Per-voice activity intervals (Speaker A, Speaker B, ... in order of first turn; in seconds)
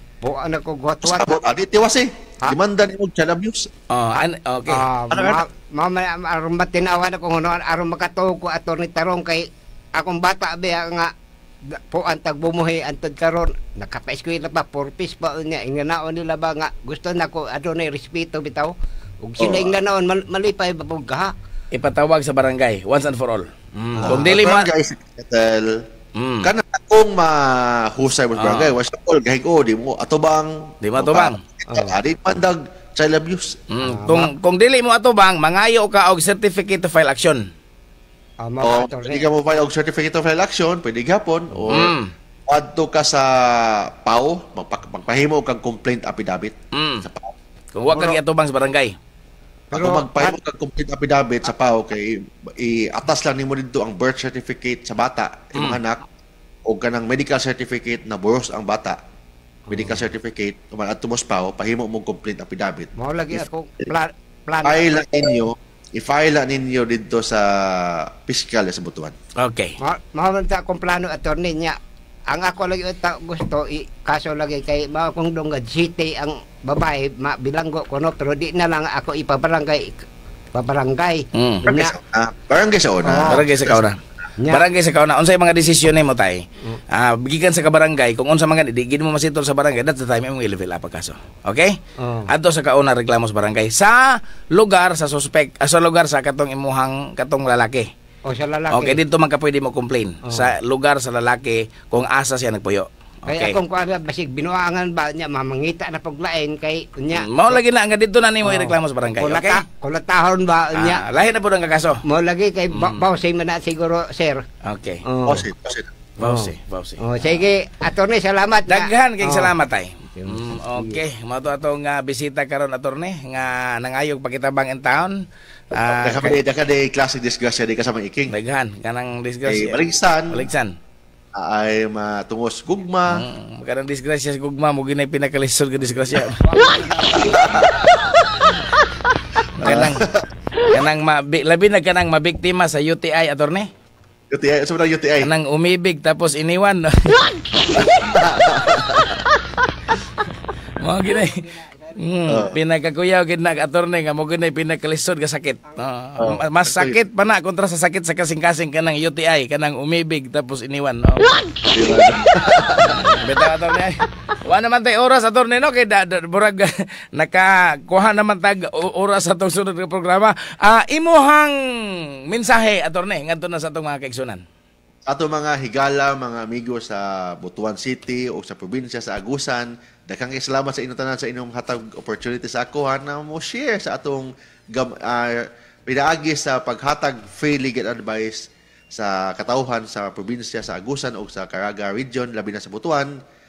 Speaker A: 0.2-1.4, 4.7-11.1, 11.7-21.3, 23.9-24.2, 31.7-32.0, 33.8-34.3, 38.4-39.2, 49.7-50.3, 59.7-60.0, 63.0-65.0, 69.8-71.8, 72.3-80.0, 80.5-81.9, 83.0-83.5, 84.4-84.6, 92.0-92.3, 98.3-99.0, 100.2-100.5, 103.3-107.6, 108.4-111.0, 112.0-114.4, 115.0-115.5, 116.2-119.5, 120.1-121.0, 136.4-137.4
Speaker B: 1.0-3.7, 5.1-5.4, 19.4-19.8, 24.0-25.8, 26.4-33.6, 38.6-41.9, 42.5-47.3, 47.9-48.2, 49.7-56.0, 56.6-59.0, 59.7-63.9, 64.6-69.1, 81.7-83.8, 115.2-115.9, 125.8-128.3, 129.4-130.5, 131.3-133.2, 136.7-138.1, 139.6-140.3, 144.3-145.3, 147.7-149.2, 152.3-152.6, 156.2-157.0, 161.7-163.1, 175.1-193.1
Speaker C: 3.9-4.8, 21.7-24.7, 26.1-26.5, 28.4-28.7, 30.8-31.4, 33.7-37.4, 41.7-42.1, 46.7-47.0, 47.7-49.0, 69.4-69.8, 81.3-81.7, 83.3-91.8, 92.3-97.9, 98.7-103.6, 107.1-109.6, 110.7-112.0, 112.7-113.0, 114.6-115.0, 116.2-117.4, 118.7-126.4, 128.3-130.7, 133.1-136.5, 139.6-140.0, 140.6-143.7, 145.2-147.2, 150.8-161.4, 163.0-174.4